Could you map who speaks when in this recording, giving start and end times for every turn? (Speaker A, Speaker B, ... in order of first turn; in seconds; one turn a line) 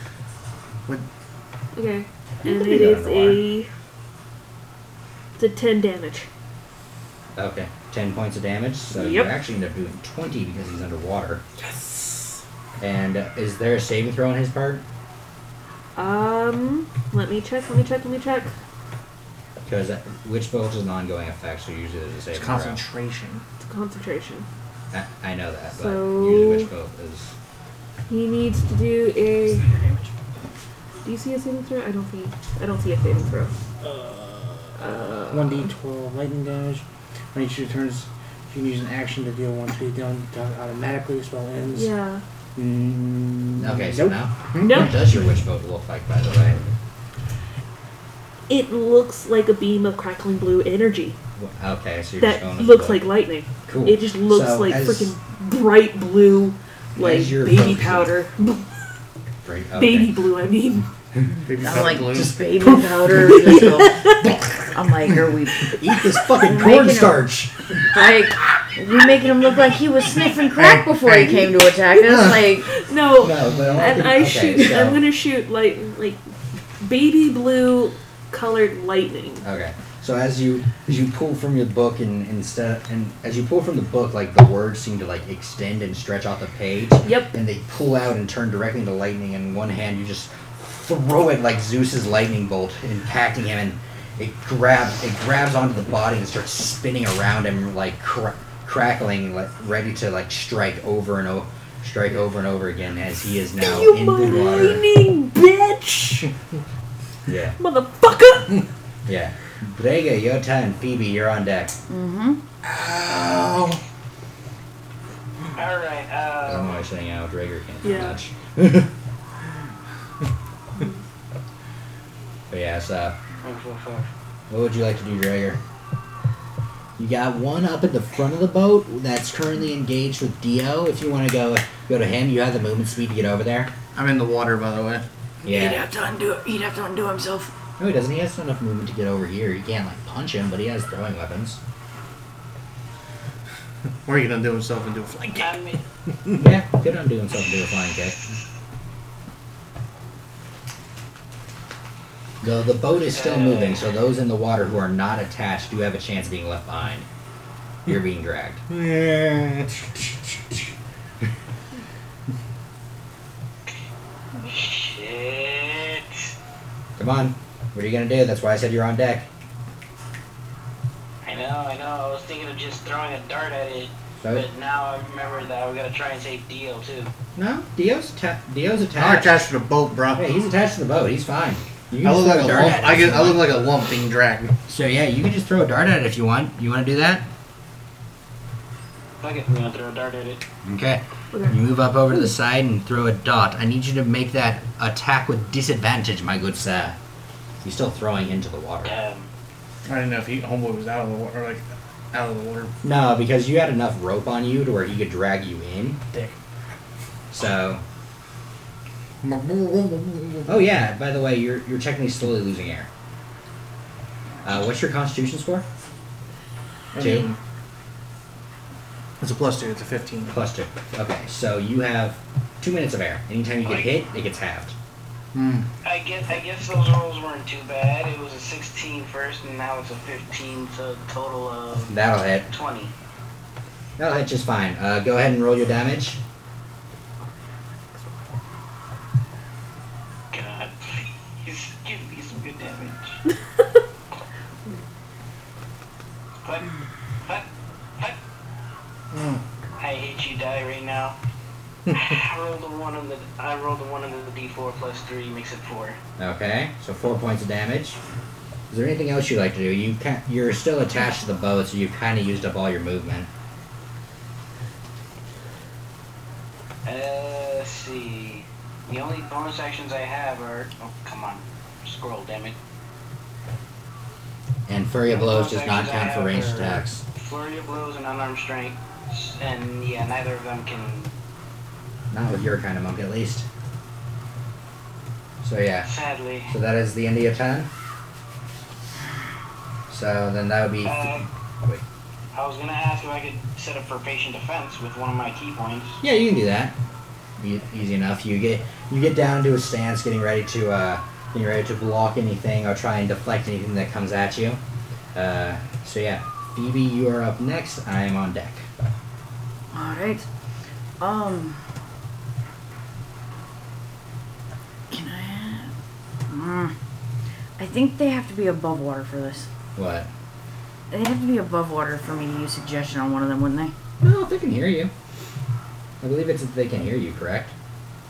Speaker A: 1.7-3.7
Speaker B: 2.4-3.5
Speaker A: 5.4-6.3
Speaker B: 7.3-11.4
Speaker A: 8.9-9.3
Speaker A: 11.6-12.1
Speaker B: 12.8-14.8
Speaker A: 15.9-18.5
Speaker B: 19.6-22.8
Speaker C: 22.3-23.4
Speaker A: 23.6-24.5
Speaker B: 24.9-27.3
Speaker A: 25.7-26.7
Speaker A: 28.1-29.6
Speaker D: 29.6-30.1
Speaker A: 31.0-33.5
Speaker C: 33.8-41.9
Speaker A: 34.8-35.7
Speaker A: 41.7-42.2
Speaker C: 42.5-44.9
Speaker B: 43.6-46.6
Speaker A: 44.6-45.0
Speaker A: 48.5-51.2
Speaker B: 51.4-53.0
Speaker A: 52.2-58.7
Speaker B: 53.6-55.1
Speaker B: 57.0-58.1
Speaker D: 57.8-58.3
Speaker B: 59.4-60.2
Speaker A: 59.7-60.9
Speaker C: 61.5-62.6
Speaker D: 61.6-64.0
Speaker C: 63.1-63.6
Speaker A: 63.2-64.4
Speaker D: 64.7-67.3
Speaker B: 65.6-67.9
Speaker D: 67.8-72.7
Speaker C: 70.5-71.4
Speaker A: 71.9-76.2
Speaker C: 72.1-72.4
Speaker B: 73.2-75.0
Speaker C: 73.5-74.3
Speaker A: 76.8-79.4
Speaker B: 79.4-104.8
Speaker A: 87.0-87.3
Speaker A: 103.6-106.3
Speaker B: 107.3-107.6
Speaker A: 107.6-108.6
Speaker B: 109.0-111.7
Speaker D: 111.9-112.4
Speaker C: 112.6-113.8
Speaker E: 115.5-116.8
Speaker B: 116.5-118.9
Speaker A: 117.8-118.2
Speaker B: 122.5-123.2
Speaker E: 123.4-124.1
Speaker B: 124.5-125.6
Speaker B: 127.0-133.7
Speaker C: 133.9-135.1
Speaker B: 135.4-135.8
Speaker D: 135.5-137.5
Speaker B: 137.8-141.6
Speaker C: 144.0-145.7
Speaker E: 145.4-145.8
Speaker B: 146.3-148.2
Speaker B: 152.4-157.1
Speaker E: 153.0-153.9
Speaker B: 157.8-158.6
Speaker C: 158.7-160.3
Speaker E: 164.4-166.3
Speaker B: 167.0-169.3
Speaker E: 171.2-177.1
Speaker B: 174.2-174.5
Speaker B: 177.3-179.4
Speaker C: 178.9-180.2
Speaker B: 180.1-183.4
Speaker C: 182.0-184.5
Speaker B: 184.7-187.3
Speaker E: 189.2-190.4
Speaker B: 190.6-197.0
Speaker A: 191.3-191.6
Speaker B: 197.6-199.0
Speaker E: 198.8-199.3
Speaker C: 199.8-202.7
Speaker B: 202.8-206.0
Speaker B: 207.3-207.8
Speaker C: 209.2-210.6
Speaker B: 210.4-212.9
Speaker B: 214.4-215.6
Speaker C: 216.9-217.4
Speaker B: 217.0-217.3
Speaker C: 219.2-220.4
Speaker B: 220.3-224.7
Speaker E: 223.6-223.9
Speaker C: 225.3-225.7
Speaker E: 225.8-231.9
Speaker B: 231.9-232.5
Speaker E: 232.5-232.9
Speaker B: 234.0-236.2
Speaker E: 240.3-243.2
Speaker E: 246.4-246.7
Speaker C: 249.1-249.4
Speaker E: 249.8-251.2
Speaker C: 251.9-252.2
Speaker E: 251.9-256.0
Speaker B: 256.2-258.0
Speaker B: 258.7-263.3
Speaker E: 266.8-272.6
Speaker B: 274.7-277.0
Speaker E: 275.1-281.1
Speaker B: 282.1-283.4
Speaker B: 285.4-285.9
Speaker E: 285.8-286.5
Speaker B: 286.5-287.7
Speaker B: 289.9-291.1
Speaker E: 290.8-291.3
Speaker E: 292.3-296.0
Speaker B: 296.0-296.8
Speaker B: 297.4-304.6
Speaker B: 305.1-308.7
Speaker D: 309.7-310.2
Speaker D: 311.0-311.6
Speaker D: 314.9-315.7
Speaker D: 316.3-316.7
Speaker D: 317.6-319.5
Speaker B: 319.8-320.1
Speaker D: 320.9-323.7
Speaker B: 324.0-324.9
Speaker B: 326.0-327.5